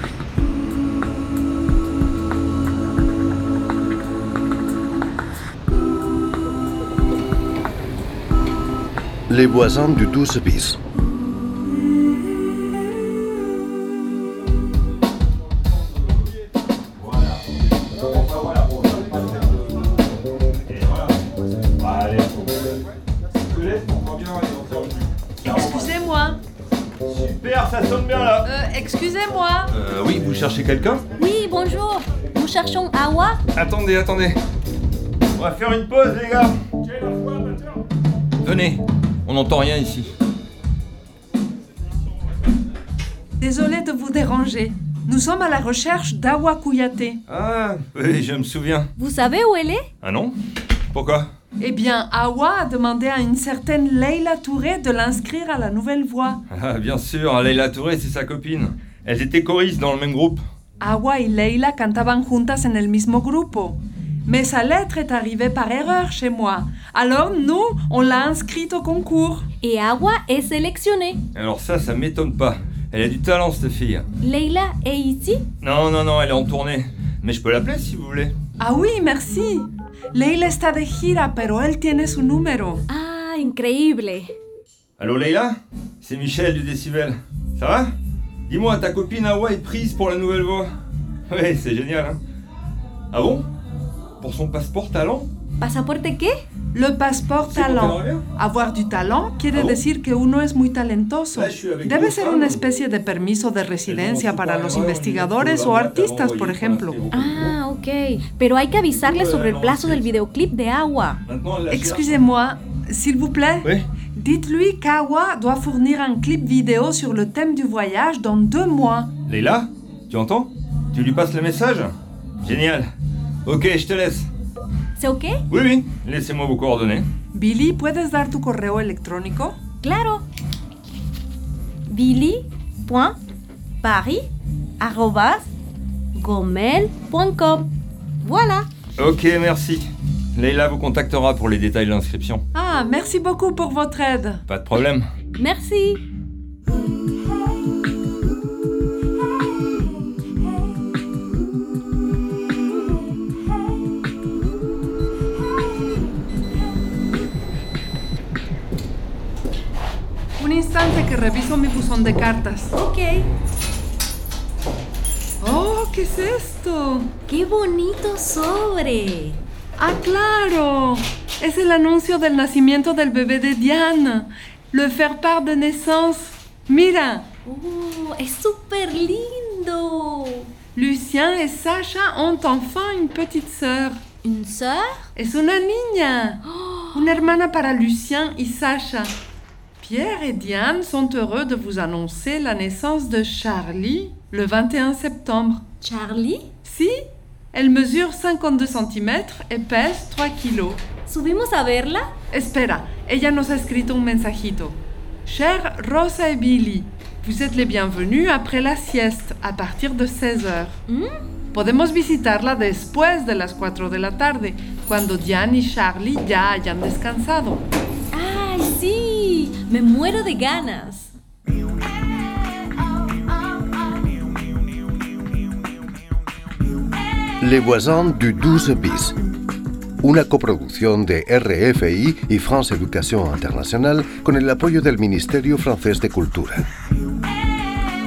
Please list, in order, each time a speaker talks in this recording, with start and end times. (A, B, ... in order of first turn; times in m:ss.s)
0:09.3-0:10.8 A
0:17.0-0:17.4 B
0:18.0-0:19.6 B
0:20.7-0:21.2 B
0:21.8-0:22.6 B
0:23.4-0:25.8 B
0:25.4-0:26.4 C
0:27.0-0:28.5 B
0:28.4-0:29.7 C
0:29.7-0:31.0 B
0:31.2-0:33.4 D
0:33.5-0:34.4 B
0:35.4-0:36.6 B
0:38.4-0:40.1 B
0:43.4-0:47.2 C
0:47.3-0:48.9 B
0:49.0-0:49.9 D
0:50.0-0:50.4 B
0:50.9-0:51.3 B
0:51.6-0:56.4 C
0:56.5-1:00.4 B
1:00.8-1:09.5 C
1:09.6-1:11.2 D
1:11.3-1:14.0 B
1:14.2-1:15.4 D
1:15.6-1:18.3 B
1:18.6-1:22.8 C
1:22.9-1:24.3 D
1:25.0-1:27.9 B
1:28.5-1:30.7 B
1:31.3-1:32.2 B
1:33.1-1:33.5 B
1:34.2-1:35.3 B
1:35.6-1:36.3 D
1:36.7-1:47.0 C
1:37.4-1:38.2 B
1:39.5-1:39.8 B
1:41.3-1:42.6 B
1:43.8-1:47.6 B
1:47.1-1:51.2 D
1:48.9-1:50.1 B
1:51.2-1:52.2 B
1:51.7-1:59.1 C
1:59.2-2:02.9 B
2:03.4-2:04.3 B
2:05.0-2:05.4 D
2:05.5-2:07.1 B
2:07.3-2:09.6 C
2:09.8-2:10.2 D
2:11.9-2:13.2 D
2:13.8-2:14.3 D
2:14.8-2:15.5 D
2:16.1-2:17.7 D
2:18.2-2:18.7 D
2:19.0-2:22.4 B
2:22.5-2:24.4 C
2:24.5-2:25.0 B
2:25.4-2:26.0 D
2:40.4-2:42.7 C
2:42.7-2:43.3 D
2:45.4-2:47.1 C
2:47.3-2:49.4 D
2:49.8-2:57.3 C
2:57.4-3:00.5 D
3:00.7-3:04.0 C
3:04.2-3:05.0 D
3:05.2-3:06.4 C
3:06.4-3:07.2 D
3:06.9-3:09.1 C
3:09.8-3:15.6 C
3:15.8-3:16.5 D
3:16.6-3:17.0 C
3:17.5-3:20.8 C
3:21.0-3:22.1 D
3:22.3-3:30.8 C
3:30.9-3:31.2 D
3:31.5-3:37.6 C
3:38.1-3:41.1 D
3:47.4-3:49.2 A
3:50.0-3:56.6 A